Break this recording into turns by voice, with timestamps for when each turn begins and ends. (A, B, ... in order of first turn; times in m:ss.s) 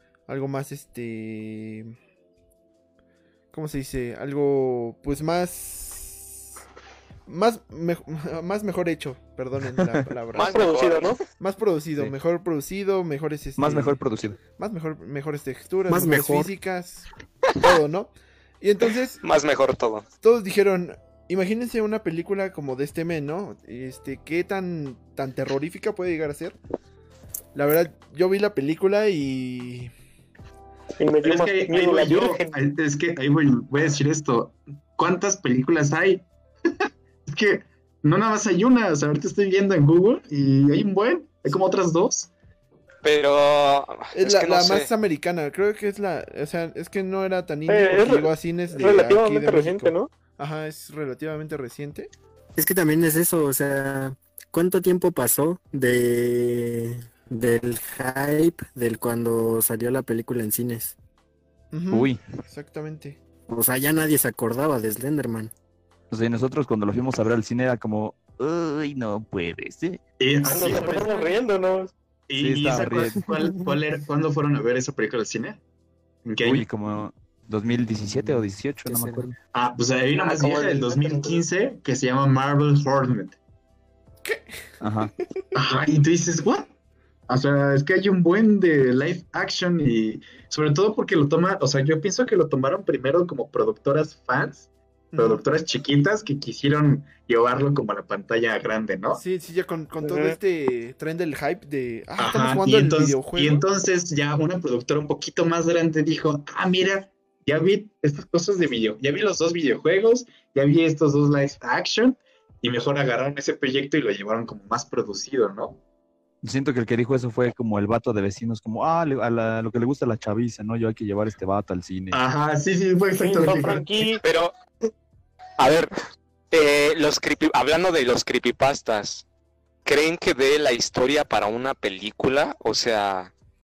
0:00.3-0:01.9 A
0:03.5-0:06.4 A
0:07.3-0:10.6 A
0:10.3-0:11.2 B
0:10.4-0:11.2 C
0:11.4-0:14.0 A
0:13.6-0:14.4 D
0:14.6-0:17.1 A
0:15.9-0:16.5 E
0:17.6-0:19.2 A
0:19.2-0:20.1 B
0:20.2-0:26.6 A
0:27.6-0:29.9 A
0:31.0-0:32.6 C
0:31.2-0:36.2 F
0:37.3-0:42.3 F
0:43.0-0:44.9 B
0:44.1-0:52.1 A
0:47.7-0:50.1 C
0:52.6-1:01.0 E
1:01.7-1:03.2 A
1:01.9-1:02.2 D
1:03.5-1:05.5 E
1:06.1-1:10.0 D
1:10.2-1:11.2 F
1:10.4-1:11.9 C
1:12.3-1:15.6 F
1:12.4-1:13.2 D
1:16.2-1:16.7 F
1:16.4-1:19.3 D
1:18.1-1:19.4 E
1:19.5-1:23.4 F
1:20.2-1:21.4 C
1:24.2-1:24.6 A
1:24.8-1:25.1 D
1:25.6-1:26.7 F
1:27.3-1:39.2 F
1:35.1-1:35.4 A
1:39.1-1:43.6 A
1:40.0-1:40.4 C
1:42.2-1:55.8 F
1:56.4-2:02.2 D
2:02.1-2:04.1 F
2:03.2-2:04.2 C
2:04.2-2:04.5 B
2:05.6-2:05.9 B
2:06.5-2:09.2 B
2:09.9-2:13.3 B